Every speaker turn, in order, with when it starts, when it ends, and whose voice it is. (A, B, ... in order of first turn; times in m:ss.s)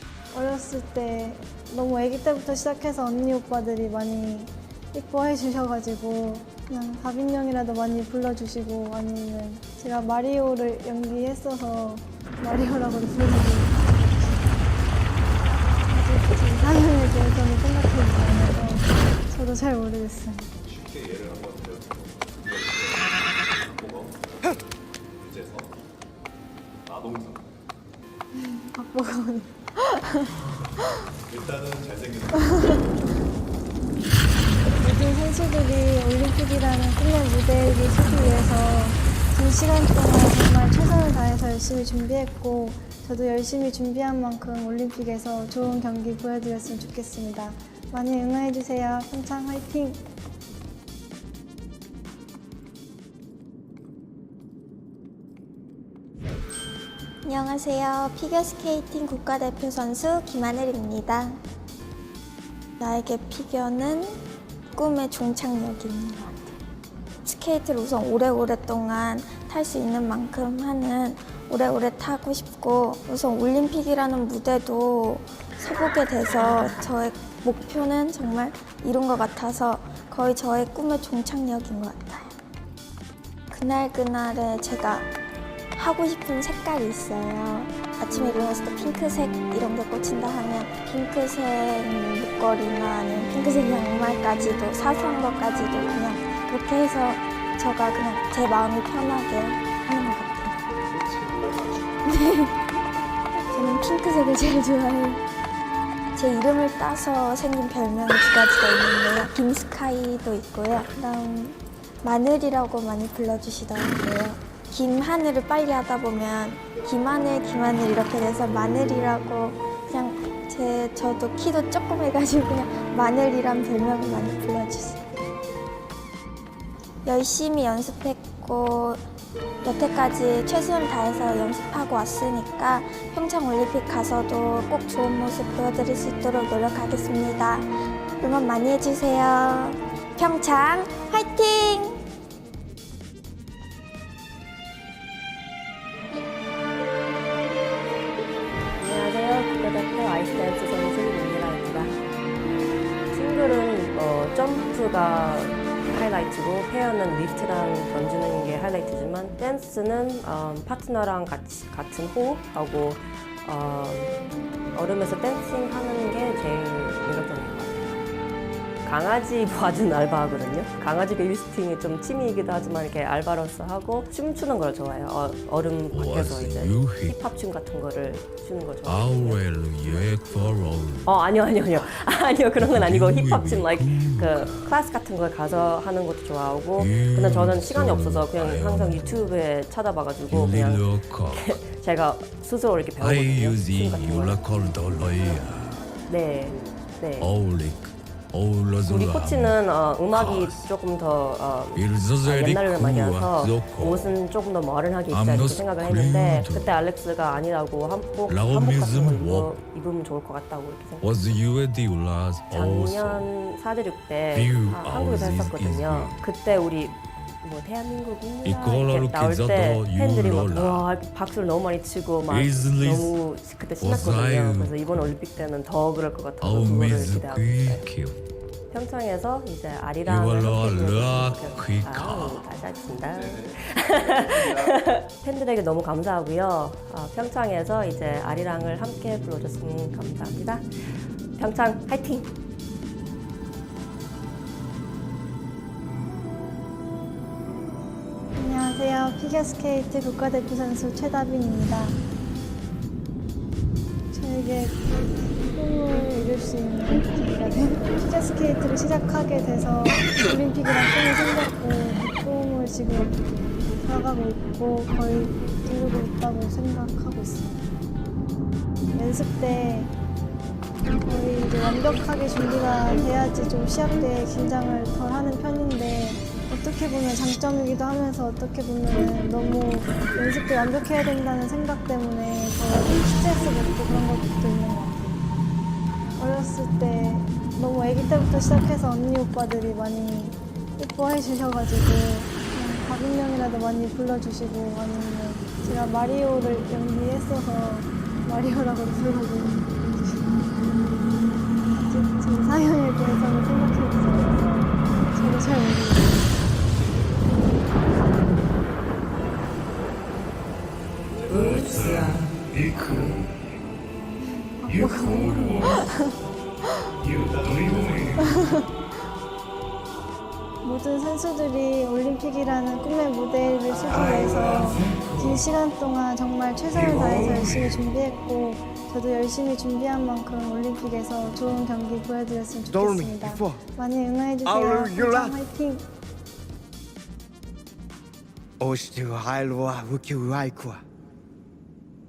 0:00.3-0:14.5 A
0:15.9-0:20.5 A
0:20.6-0:24.4 B
0:25.2-0:25.8 B
0:26.8-0:27.4 B
0:28.3-0:31.1 A
0:31.3-0:32.6 B
0:32.5-0:32.8 A
0:34.8-0:50.0 A
0:57.2-1:01.4 C
1:02.8-1:04.2 C
1:04.7-1:06.6 C
1:07.2-1:22.3 C
1:23.5-1:25.1 C
1:25.8-1:40.6 C
1:40.9-1:41.8 B
1:42.0-1:42.6 C
1:43.4-1:45.2 C
1:46.1-2:05.0 C
2:07.0-2:09.0 C
2:09.6-2:22.0 C
2:28.8-2:32.0 D
2:33.1-2:44.2 D
2:44.7-2:48.0 D
2:48.8-3:00.3 D
2:55.9-2:57.2 E
2:58.8-3:01.1 E
3:01.0-3:14.4 D
3:02.6-3:04.7 E
3:06.8-3:09.2 E
3:10.3-3:11.6 E
3:13.0-3:15.8 E
3:15.0-3:15.3 D
3:16.1-3:17.3 D
3:17.2-3:19.6 E
3:18.8-3:31.2 D
3:20.1-3:20.7 E
3:21.8-3:24.1 E
3:25.1-3:26.7 E
3:28.3-3:29.5 E
3:31.0-3:33.2 E
3:32.5-3:47.8 D
3:34.3-3:36.2 E
3:38.4-3:40.9 E
3:42.3-3:43.1 E
3:43.8-3:45.1 E
3:46.4-3:48.2 E
3:48.7-4:02.3 D
3:50.0-3:52.4 E
3:54.3-3:54.7 B
4:08.4-4:12.0 A
4:14.1-4:27.7 A
4:28.9-4:29.9 A
4:31.0-4:45.2 A
4:46.2-5:00.4 A
5:01.7-5:06.4 A
5:06.6-5:10.2 B
5:11.1-5:12.8 B
5:12.8-5:13.1 E
5:14.2-5:16.1 A
5:17.1-5:18.2 B
5:18.2-5:18.6 A
5:20.6-5:35.8 A
5:32.7-5:33.6 F
5:34.4-5:35.4 F
5:38.6-5:40.8 F